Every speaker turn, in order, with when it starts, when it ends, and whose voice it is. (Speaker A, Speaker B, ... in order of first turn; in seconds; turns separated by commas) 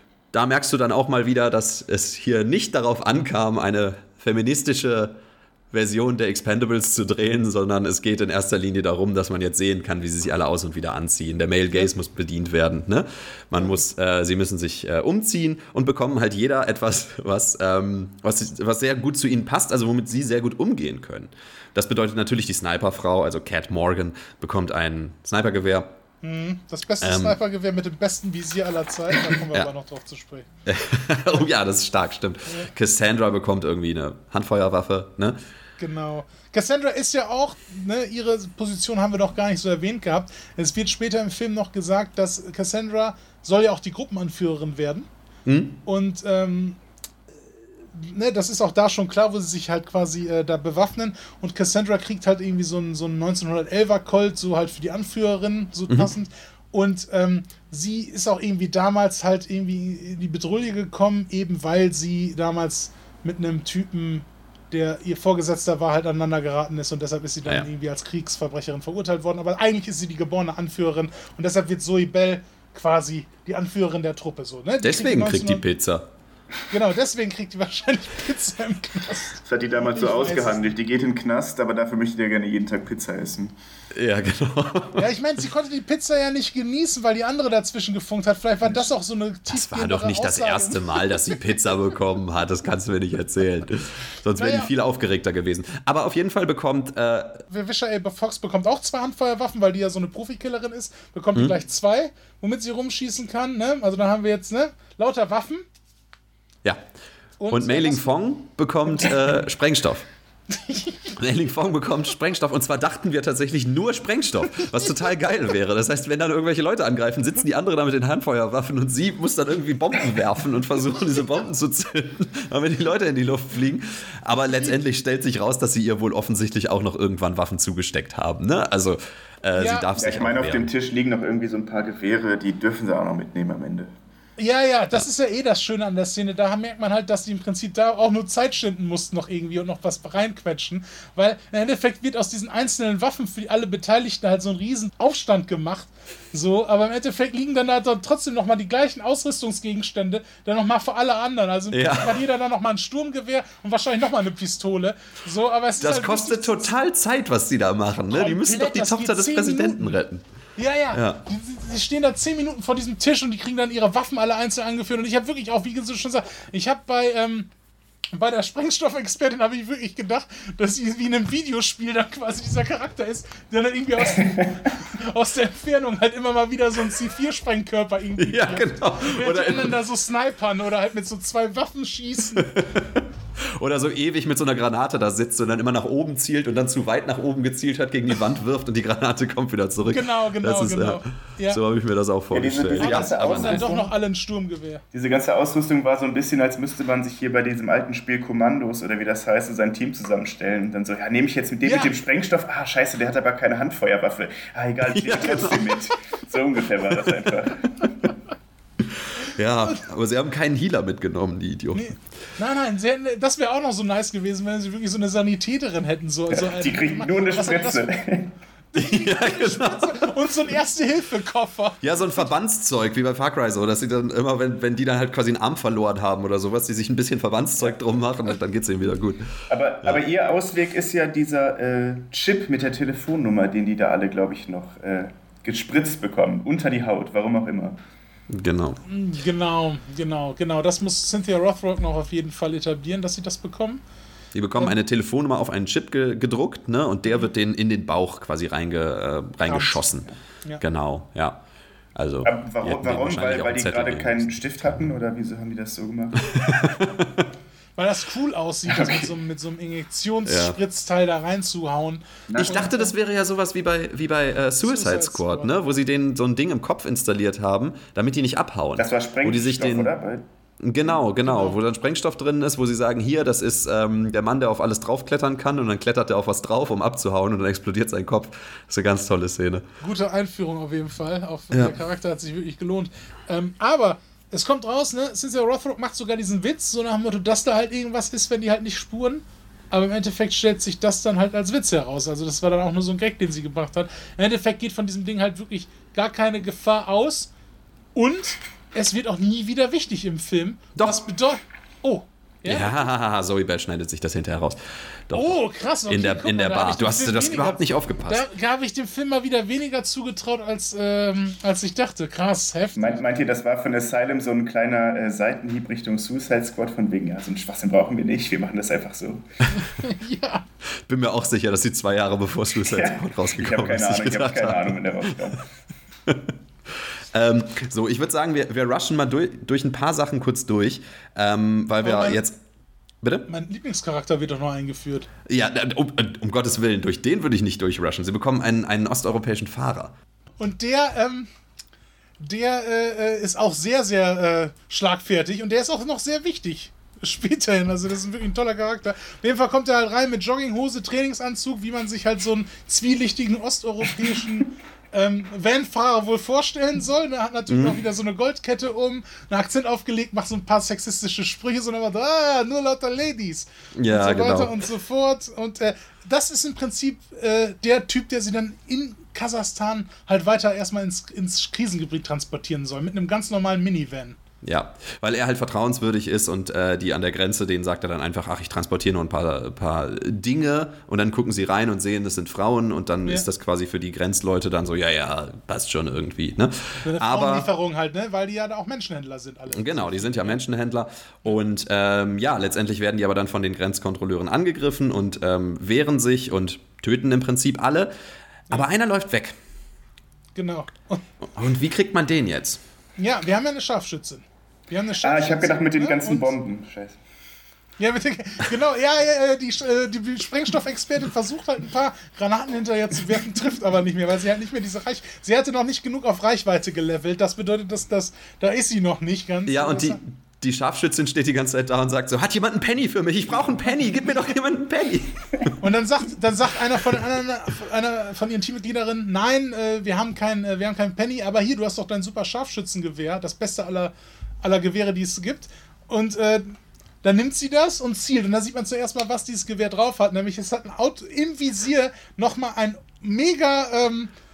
Speaker A: 0.3-5.2, Speaker A: 5.7-25.9, Speaker B: 26.2-30.4, Speaker A: 27.0-27.4, Speaker A: 29.3-29.7, Speaker A: 30.6-35.4, Speaker B: 35.8-45.1, Speaker A: 45.5-45.8, Speaker B: 45.8-46.8, Speaker B: 47.9-75.6, Speaker A: 74.8-76.1, Speaker B: 76.7-80.7, Speaker C: 79.4-83.5, Speaker A: 83.9-85.0, Speaker B: 84.9-91.4, Speaker A: 89.5-97.4, Speaker B: 94.4-94.7, Speaker B: 97.5-105.6, Speaker B: 107.4-108.2, Speaker A: 107.5-110.1, Speaker B: 110.5-111.1, Speaker A: 111.1-130.7, Speaker B: 129.6-129.9, Speaker C: 129.9-133.9, Speaker B: 134.4-156.7, Speaker A: 151.7-152.2, Speaker A: 155.8-160.2, Speaker B: 158.1-160.0, Speaker B: 160.6-167.5, Speaker A: 160.9-161.2, Speaker B: 168.1-182.5, Speaker A: 178.2-179.8, Speaker A: 182.4-193.7, Speaker B: 189.9-191.6, Speaker C: 192.3-193.9, Speaker B: 192.8-194.8, Speaker C: 194.9-208.1, Speaker B: 201.6-201.9, Speaker A: 204.9-205.9, Speaker A: 208.8-211.9, Speaker B: 211.7-217.9, Speaker C: 216.3-218.3, Speaker B: 218.7-222.3, Speaker A: 218.8-220.1, Speaker A: 221.8-229.3, Speaker C: 229.5-237.8, Speaker A: 238.3-238.8, Speaker B: 238.9-243.8, Speaker A: 244.3-250.1, Speaker B: 249.4-249.8, Speaker A: 250.6-251.4, Speaker A: 251.9-254.9, Speaker C: 252.2-256.3, Speaker A: 256.3-257.3, Speaker B: 257.8-262.9, Speaker C: 258.7-259.1, Speaker A: 260.2-260.6, Speaker C: 262.3-262.7, Speaker A: 262.4-269.9, Speaker B: 264.6-265.6, Speaker C: 268.8-270.2, Speaker A: 270.6-279.6, Speaker B: 271.2-271.6, Speaker B: 279.8-297.3, Speaker B: 297.9-302.8, Speaker A: 300.8-301.0, Speaker A: 302.4-308.2, Speaker B: 305.1-313.0, Speaker C: 312.8-319.2, Speaker B: 319.5-320.4, Speaker A: 320.9-325.2, Speaker C: 322.6-325.5, Speaker A: 326.1-326.3, Speaker A: 327.1-332.4, Speaker B: 331.8-332.2, Speaker A: 333.0-333.3, Speaker B: 333.3-335.1, Speaker A: 335.3-339.9, Speaker B: 340.4-341.3, Speaker B: 342.2-374.2, Speaker A: 357.5-357.8, Speaker A: 363.8-364.5, Speaker A: 374.4-387.5, Speaker B: 386.8-390.4, Speaker A: 389.5-397.9, Speaker A: 398.5-399.4, Speaker B: 400.3-401.0, Speaker A: 401.3-402.6, Speaker B: 403.0-406.3, Speaker C: 405.0-407.0, Speaker B: 407.8-420.0, Speaker A: 419.4-425.5, Speaker B: 425.6-444.1